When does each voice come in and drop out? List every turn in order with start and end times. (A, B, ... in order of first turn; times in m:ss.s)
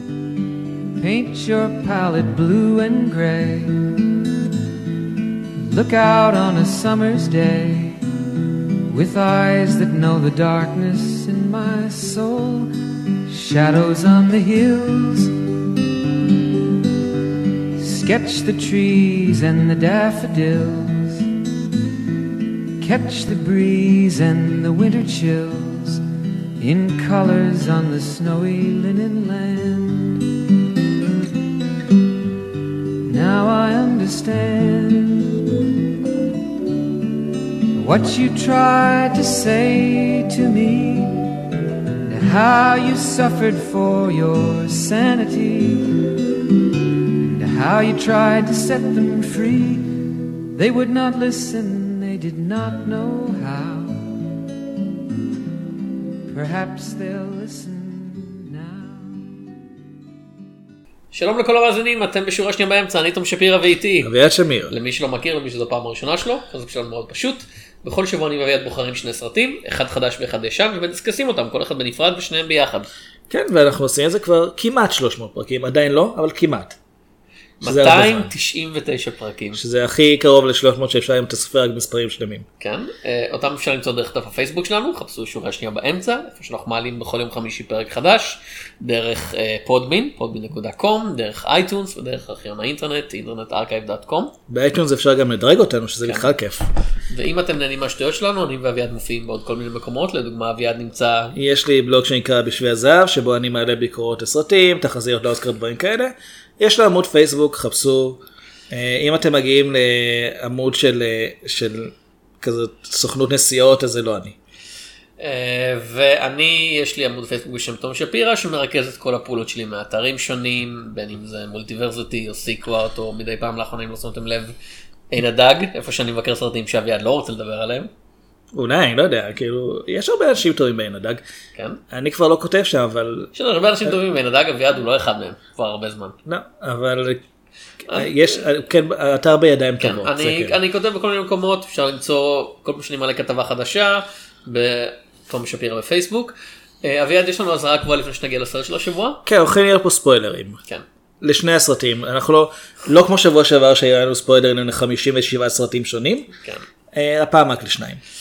0:01.0-0:04.0 A
0:05.6-0:08.0 A
0:08.9-0:12.7 A
0:13.3-0:15.3 A
0:17.8-0:21.3 A
0:22.8-0:26.0 A
0:26.6-0:30.2 A
0:33.0-0:35.3 A
0:37.8-0:41.3 A
0:42.1-0:46.1 A
0:47.2-0:54.2 A
0:56.3-0:59.4 A
1:01.1-1:04.1 B
1:04.0-1:04.7 C
1:04.7-1:12.9 B
1:13.3-1:16.8 C
1:17.6-1:19.6 B
1:17.6-1:18.3 C
1:19.6-1:22.5 C
1:22.6-1:34.3 B
1:34.5-1:36.6 C
1:36.0-1:36.3 B
1:37.1-1:41.4 B
1:41.4-1:54.4 C
1:55.2-2:04.6 B
2:05.1-2:07.9 B
2:08.5-2:11.2 C
2:11.6-2:11.8 B
2:11.9-2:13.3 C
2:13.3-2:16.2 B
2:16.2-2:17.2 C
2:17.9-2:18.1 B
2:17.9-2:20.6 C
2:19.8-2:29.2 B
2:29.3-2:30.6 C
2:31.2-2:36.3 C
2:36.4-2:36.6 B
2:36.9-2:38.0 C